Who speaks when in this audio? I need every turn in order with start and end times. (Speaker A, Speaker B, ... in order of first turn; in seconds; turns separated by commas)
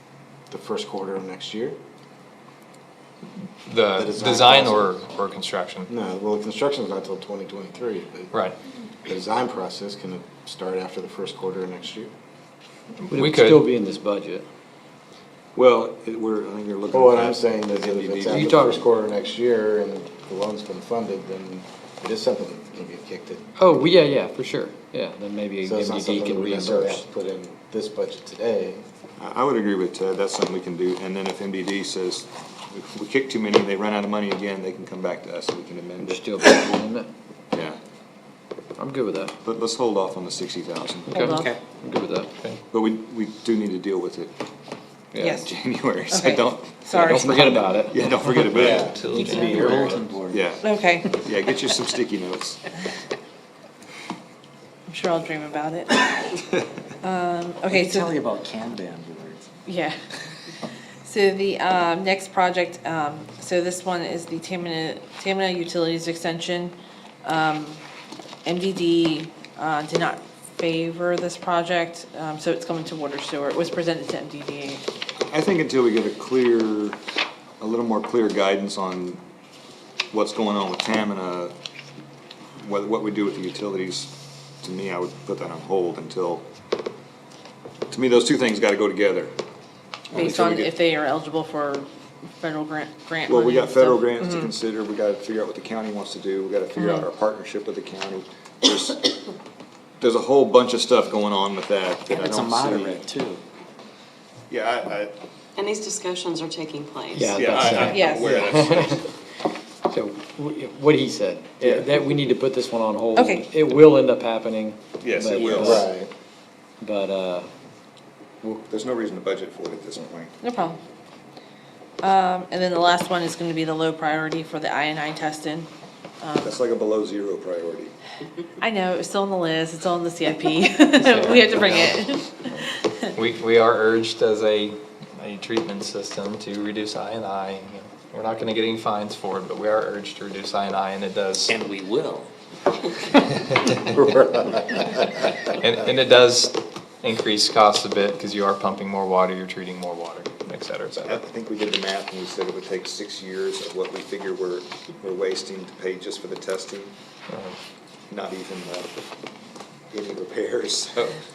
Speaker A: 0.5-1.8, Speaker B: 3.7-5.8, Speaker C: 3.7-4.1, Speaker A: 4.0-4.9, Speaker A: 5.9-8.3, Speaker A: 9.0-12.1, Speaker C: 13.0-14.4, Speaker D: 15.5-18.8, Speaker A: 16.9-23.4, Speaker C: 18.3-18.8, Speaker C: 23.6-27.0, Speaker A: 25.6-28.8, Speaker D: 29.2-36.6, Speaker C: 36.0-37.1, Speaker D: 37.5-37.8, Speaker C: 38.8-39.3, Speaker D: 39.4-41.2, Speaker C: 41.1-42.6, Speaker E: 41.1-41.5, Speaker F: 41.2-41.6, Speaker D: 42.7-44.3, Speaker C: 45.1-45.4, Speaker E: 45.2-45.5, Speaker D: 45.3-52.7, Speaker E: 46.1-47.6, Speaker C: 46.9-50.0, Speaker A: 48.5-48.9, Speaker B: 48.8-49.2, Speaker F: 49.1-50.4, Speaker E: 50.6-51.1, Speaker E: 54.9-56.1, Speaker E: 57.0-58.1, Speaker F: 57.7-59.5, Speaker E: 59.6-59.9, Speaker E: 61.0-67.8, Speaker E: 68.4-74.8, Speaker D: 75.3-77.0, Speaker D: 77.6-79.2, Speaker D: 80.1-81.5, Speaker D: 82.6-84.1, Speaker D: 84.6-86.4, Speaker D: 87.9-89.3, Speaker D: 90.1-90.7, Speaker E: 90.1-91.9, Speaker E: 92.4-94.3, Speaker D: 93.3-99.1, Speaker E: 96.8-97.0, Speaker D: 100.0-103.0, Speaker F: 102.1-103.4, Speaker D: 104.5-105.1, Speaker G: 105.6-107.8, Speaker C: 107.1-109.0, Speaker D: 107.3-109.1, Speaker E: 107.9-108.4, Speaker C: 109.9-115.9, Speaker E: 113.2-113.5, Speaker D: 115.0-115.9, Speaker A: 115.5-116.1, Speaker C: 116.8-117.5, Speaker D: 118.7-120.3, Speaker E: 120.4-120.8, Speaker E: 122.0-125.7, Speaker E: 126.2-126.5, Speaker D: 126.4-127.9, Speaker E: 128.6-133.1, Speaker B: 131.0-131.9, Speaker B: 133.1-141.5, Speaker F: 141.5-142.3, Speaker F: 142.8-143.2, Speaker A: 144.0-145.0, Speaker B: 145.7-151.2, Speaker D: 151.0-156.9, Speaker B: 157.3-157.6, Speaker D: 158.1-158.9, Speaker D: 159.9-161.2